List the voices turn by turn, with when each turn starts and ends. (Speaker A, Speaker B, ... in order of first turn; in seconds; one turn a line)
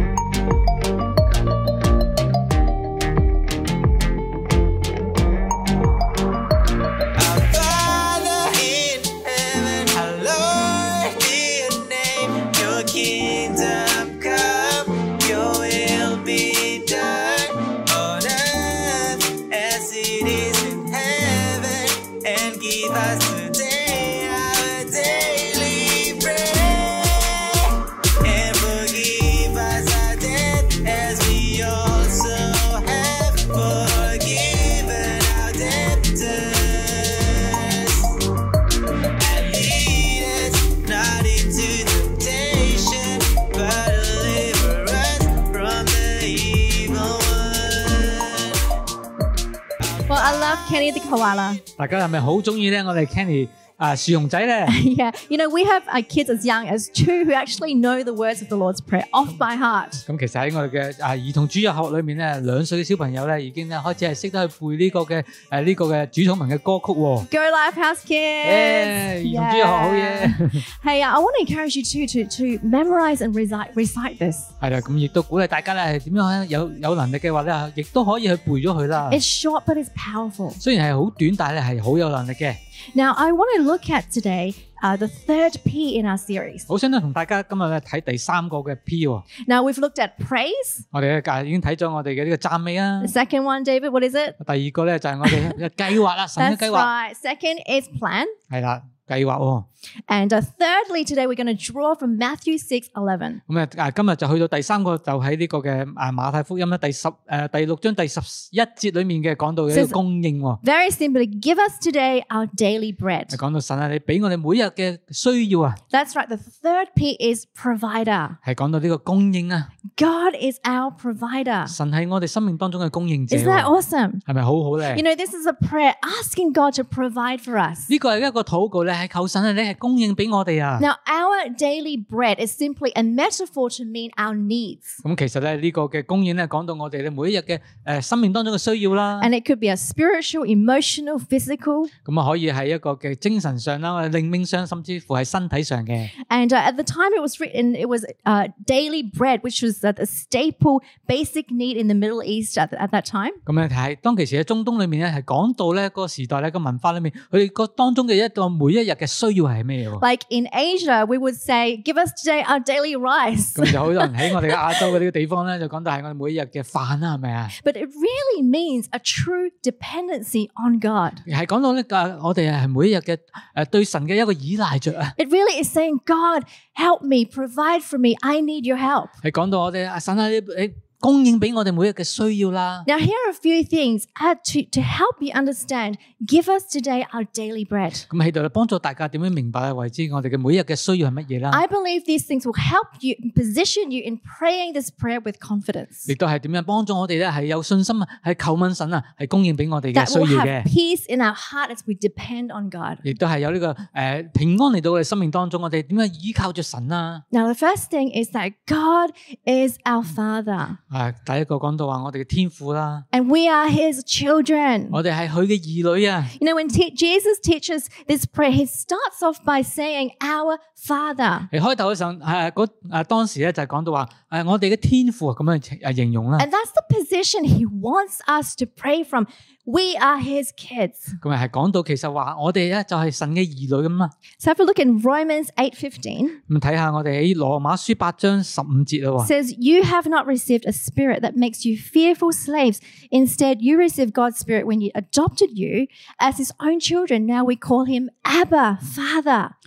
Speaker A: 7.2-38.2
Speaker A: 39.2-48.6
Speaker A: 50.1-50.3
Speaker B: 50.1-51.6
Speaker C: 51.8-54.8
Speaker B: 54.7-60.0
Speaker C: 60.1-67.3
Speaker B: 67.3-74.5
Speaker C: 68.4-70.7
Speaker C: 74.6-79.2
Speaker B: 79.1-80.6
Speaker C: 80.6-82.6
Speaker B: 83.0-86.7
Speaker C: 86.7-89.2
Speaker B: 89.4-90.8
Speaker C: 90.9-93.1
Speaker B: 93.0-94.4
Speaker C: 94.4-96.9
Speaker B: 95.2-95.5
Speaker B: 96.4-98.3
Speaker C: 98.5-99.7
Speaker B: 100.1-103.4
Speaker C: 103.5-110.6
Speaker B: 109.7-110.0
Speaker B: 110.6-113.4
Speaker C: 113.3-115.8
Speaker B: 115.9-118.4
Speaker C: 118.4-119.7
Speaker B: 120.0-121.7
Speaker C: 121.7-123.7
Speaker B: 123.3-124.2
Speaker C: 124.3-125.0
Speaker B: 124.9-127.9
Speaker C: 127.9-130.9
Speaker B: 130.8-135.0
Speaker C: 135.0-139.3
Speaker B: 139.2-141.9
Speaker C: 142.1-146.1
Speaker B: 146.2-153.4
Speaker C: 153.5-160.0
Speaker B: 160.0-164.8
Speaker C: 163.6-167.5
Speaker B: 167.6-171.2
Speaker C: 171.3-175.1
Speaker B: 175.2-179.1
Speaker C: 179.2-182.9
Speaker B: 182.9-188.1
Speaker C: 188.1-191.6
Speaker B: 191.5-196.1
Speaker C: 196.1-200.7
Speaker B: 199.9-203.0
Speaker C: 203.0-207.2
Speaker B: 207.3-210.8
Speaker C: 210.9-213.1
Speaker B: 213.1-215.0
Speaker C: 214.9-216.3
Speaker B: 216.4-221.5
Speaker C: 221.5-226.5
Speaker B: 226.4-231.2
Speaker C: 231.2-234.1
Speaker B: 234.4-236.4
Speaker C: 236.5-239.3
Speaker B: 239.2-249.5